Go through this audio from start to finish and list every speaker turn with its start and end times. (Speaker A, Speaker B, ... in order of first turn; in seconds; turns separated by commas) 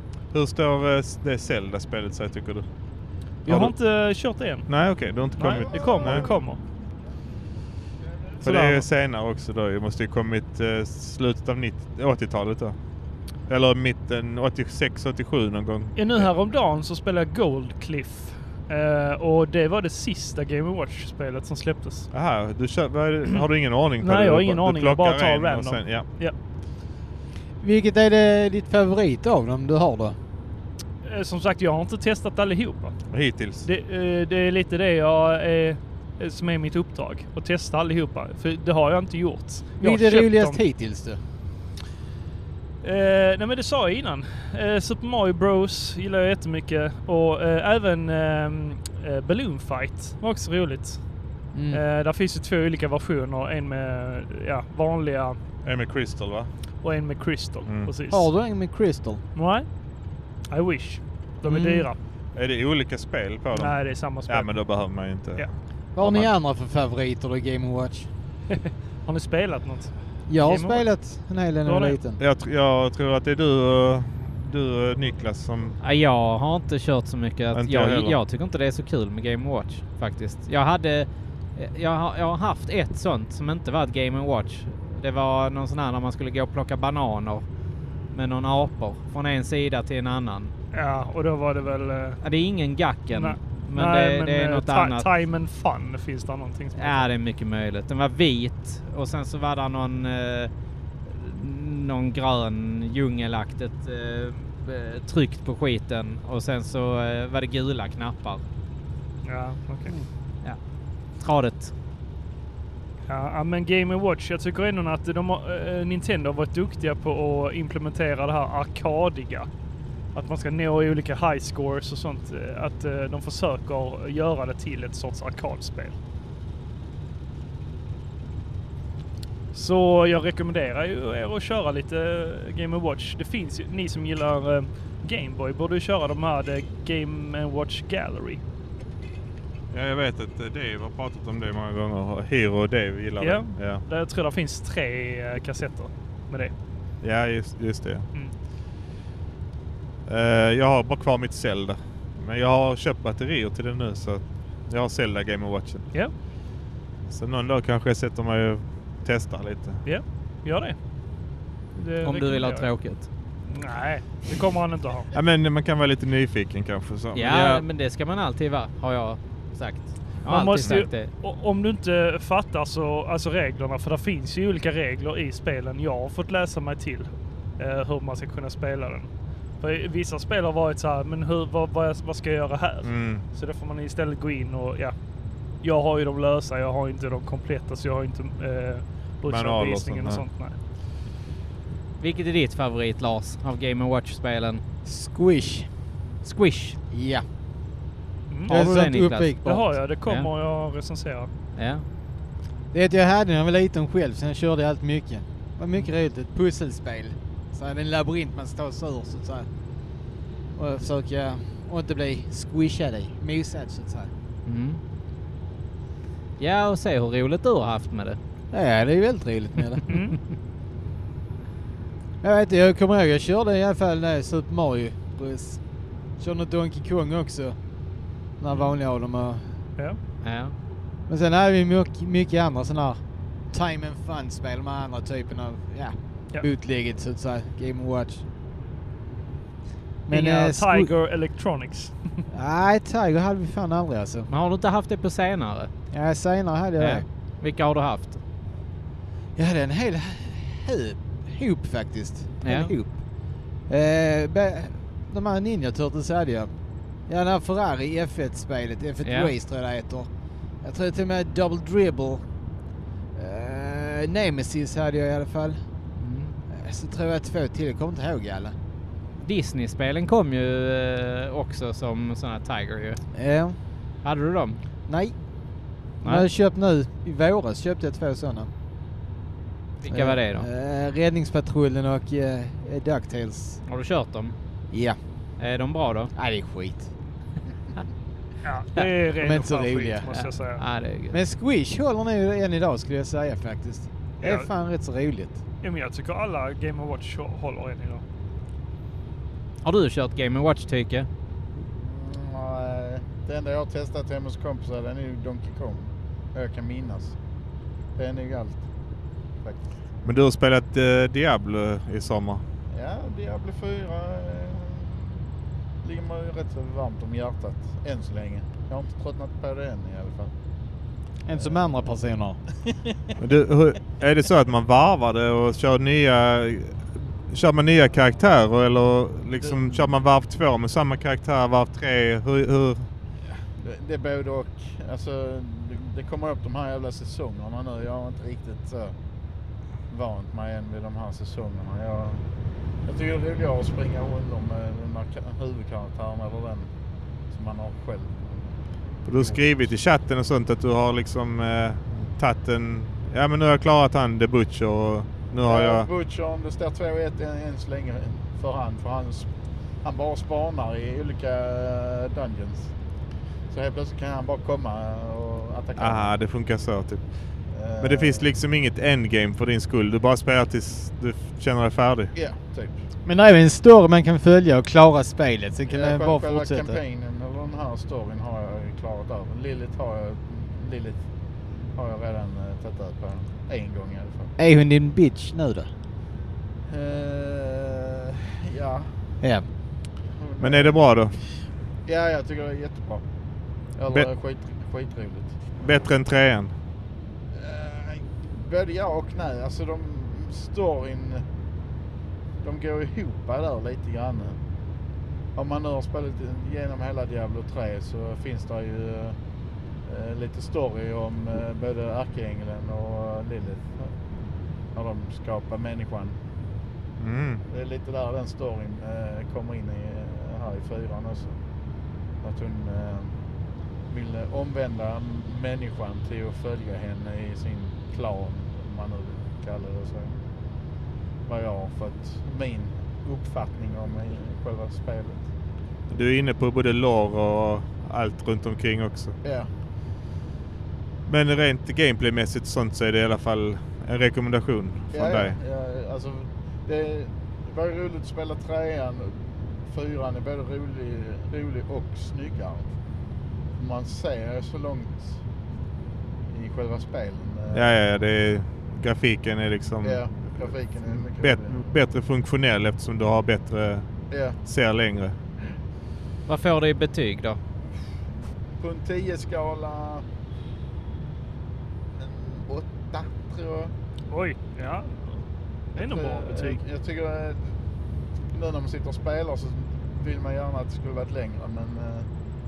Speaker A: 0.3-2.7, Speaker B: 3.5-4.7, Speaker A: 3.5-3.7, Speaker A: 4.7-6.3, Speaker B: 5.4-6.6, Speaker C: 5.7-6.3, Speaker A: 8.4-12.8, Speaker B: 8.4-8.8, Speaker A: 13.5-16.3, Speaker B: 16.0-22.1, Speaker A: 22.1-26.1, Speaker B: 24.0-26.4, Speaker D: 27.6-30.2, Speaker B: 31.0-33.0, Speaker A: 33.1-33.7, Speaker B: 33.6-40.6, Speaker D: 39.8-41.2, Speaker B: 42.8-51.0, Speaker D: 51.5-51.8, Speaker B: 51.7-55.4, Speaker A: 55.6-56.5, Speaker B: 56.8-58.3, Speaker D: 58.1-59.2, Speaker B: 59.4-59.7, Speaker B: 60.5-62.0, Speaker D: 61.4-61.9, Speaker A: 62.4-66.3, Speaker B: 63.5-64.7, Speaker D: 66.0-68.1, Speaker B: 68.5-70.8, Speaker D: 70.3-72.2, Speaker B: 71.7-72.0, Speaker A: 72.2-75.8, Speaker E: 75.8-87.5, Speaker A: 77.5-78.2, Speaker E: 88.1-90.5, Speaker B: 90.7-92.2, Speaker E: 92.2-95.1, Speaker B: 93.1-97.1, Speaker E: 96.8-100.5, Speaker E: 101.1-108.4, Speaker B: 109.2-109.9, Speaker E: 111.2-111.7, Speaker B: 113.1-119.5, Speaker B: 120.1-126.0, Speaker B: 129.5-138.4, Speaker A: 139.7-143.8, Speaker B: 143.2-146.5, Speaker A: 147.0-148.1, Speaker A: 150.1-155.9, Speaker A: 157.1-159.8, Speaker B: 159.8-160.8, Speaker B: 161.8-162.7, Speaker E: 162.0-163.1, Speaker B: 163.5-165.1, Speaker A: 165.1-167.6, Speaker E: 167.1-171.1, Speaker B: 170.2-184.9, Speaker A: 182.8-183.2, Speaker B: 185.6-190.6, Speaker A: 189.3-190.2, Speaker E: 192.0-194.6, Speaker D: 194.8-195.7, Speaker E: 196.2-196.8, Speaker D: 196.9-197.2, Speaker E: 198.5-199.3, Speaker D: 198.5-199.7, Speaker B: 199.4-201.3, Speaker E: 201.6-201.8, Speaker D: 202.7-209.5, Speaker D: 210.6-214.1, Speaker E: 214.5-214.8, Speaker E: 216.4-218.2, Speaker D: 218.5-219.8, Speaker B: 219.9-220.2, Speaker D: 222.2-225.6, Speaker D: 226.2-227.6, Speaker D: 228.4-229.4, Speaker E: 230.2-230.6, Speaker D: 231.1-233.0, Speaker D: 233.5-238.2, Speaker D: 240.1-240.9, Speaker B: 240.1-242.2, Speaker D: 242.3-244.3, Speaker E: 244.3-245.7, Speaker D: 245.9-247.1, Speaker E: 246.8-248.2, Speaker D: 249.4-253.0, Speaker E: 252.4-252.7, Speaker D: 253.7-256.5, Speaker D: 257.1-260.1, Speaker E: 259.0-259.3, Speaker D: 260.6-262.2, Speaker D: 263.1-265.6, Speaker E: 266.0-266.4, Speaker D: 266.5-268.6, Speaker E: 269.2-273.0, Speaker D: 273.1-273.6, Speaker E: 274.0-274.6, Speaker D: 274.9-275.1, Speaker E: 276.0-276.3, Speaker D: 276.0-278.5, Speaker E: 279.8-280.5, Speaker D: 279.9-283.6, Speaker E: 283.7-284.4, Speaker D: 284.7-285.0, Speaker E: 285.4-286.1, Speaker D: 286.1-286.9, Speaker B: 288.4-290.6, Speaker D: 289.2-290.1, Speaker E: 290.1-291.2, Speaker D: 291.1-295.4, Speaker B: 294.2-294.5, Speaker B: 295.6-298.0, Speaker E: 299.6-301.1, Speaker C: 301.7-307.1, Speaker C: 308.0-308.6, Speaker A: 310.0-312.4, Speaker C: 312.7-315.2, Speaker C: 315.8-320.3, Speaker D: 321.3-322.4, Speaker C: 321.4-321.8, Speaker A: 323.2-332.9, Speaker C: 329.5-329.8, Speaker C: 333.6-338.9, Speaker C: 339.9-342.2, Speaker C: 342.9-346.7, Speaker C: 347.3-348.3, Speaker A: 349.1-355.9, Speaker C: 349.1-349.4, Speaker C: 355.4-359.3, Speaker C: 359.8-362.7, Speaker C: 363.5-366.1, Speaker A: 365.8-367.1, Speaker C: 367.5-368.3, Speaker A: 367.8-372.1, Speaker C: 372.1-372.8, Speaker D: 373.1-376.8, Speaker C: 375.7-381.0, Speaker C: 381.7-384.3, Speaker D: 384.4-385.7, Speaker C: 386.7-388.9, Speaker C: 390.2-391.3, Speaker A: 390.4-391.2, Speaker C: 391.9-393.0, Speaker C: 393.8-395.4, Speaker A: 395.6-396.6, Speaker C: 397.4-401.2, Speaker C: 402.4-404.4, Speaker C: 405.4-409.2, Speaker C: 409.9-414.0, Speaker C: 414.8-416.2, Speaker A: 417.0-417.4, Speaker C: 417.5-421.4, Speaker C: 422.2-423.1, Speaker C: 423.9-430.2, Speaker C: 431.3-435.3, Speaker A: 435.9-439.2, Speaker C: 439.2-439.5, Speaker A: 441.1-445.4, Speaker C: 444.9-452.7, Speaker C: 453.6-455.2, Speaker C: 456.3-457.7, Speaker A: 457.5-463.9, Speaker C: 459.8-461.7, Speaker C: 464.1-464.4, Speaker A: 464.4-465.2, Speaker E: 466.3-467.4, Speaker C: 468.6-470.1, Speaker C: 472.0-473.7, Speaker B: 474.1-475.2, Speaker B: 475.8-476.6, Speaker C: 475.8-477.5, Speaker C: 478.3-482.1